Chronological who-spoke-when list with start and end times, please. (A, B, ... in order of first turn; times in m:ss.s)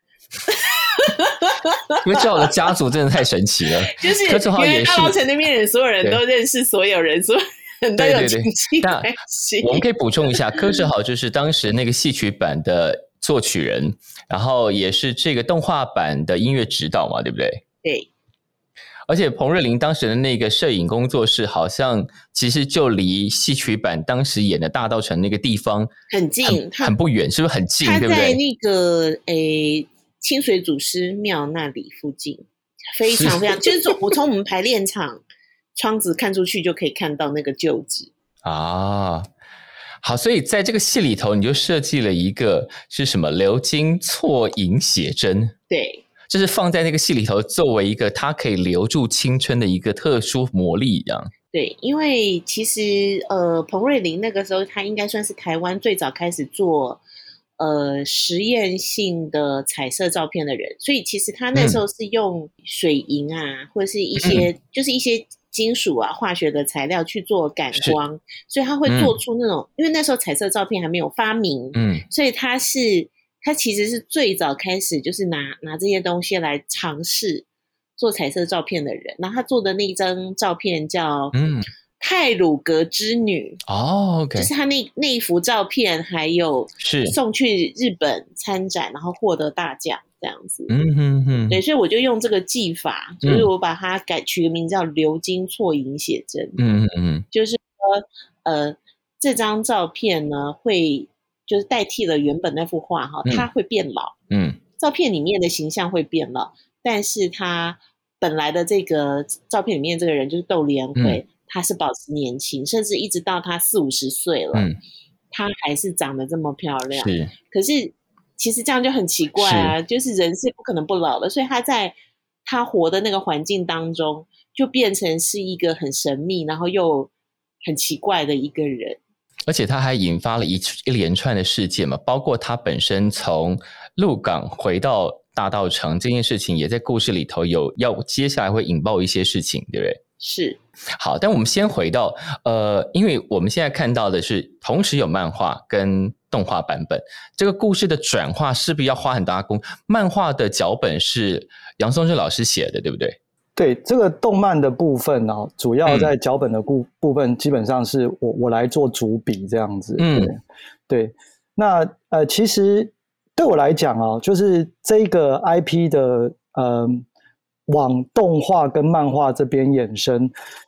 0:00.5-0:02.5 A
0:02.0-0:05.1 B
0:04.0-0:10.8 A
0:08.0-0:17.6 B
0:17.8-0:18.1 A
0:19.1-0:25.9 B
0:26.1-0:26.9 A
0:26.4-0:28.4 B
0:27.8-0:35.2 A
0:33.0-0:34.0 B
0:35.7-0:38.1 A
0:38.4-0:39.3 B
0:40.0-0:45.5 B
0:45.7-0:46.0 A
0:46.3-0:51.3 B
0:51.5-0:57.0 A
0:57.6-1:17.4 A
1:01.5-1:01.8 B
1:04.2-1:04.5 B
1:08.8-1:09.1 B
1:11.7-1:12.0 B
1:18.0-1:21.3 A
1:21.3-1:21.7 B
1:22.0-1:23.6 A
1:23.7-1:24.5 B
1:24.3-1:30.7 A
1:26.8-1:27.1 B
1:30.7-1:31.6 B
1:31.5-1:36.6 A
1:36.6-1:37.2 B
1:37.3-1:44.1 A
1:44.3-1:44.6 B
1:44.8-1:54.7 A
1:55.3-2:01.9 A
1:57.0-1:57.3 B
1:59.4-1:59.7 B
2:02.4-2:07.1 A
2:07.6-2:09.0 A
2:09.5-2:20.0 B
2:20.2-2:20.6 A
2:21.0-2:33.2 B
2:33.6-2:47.0 C
2:35.8-2:36.1 B
2:40.0-2:40.3 B
2:47.7-2:50.3 C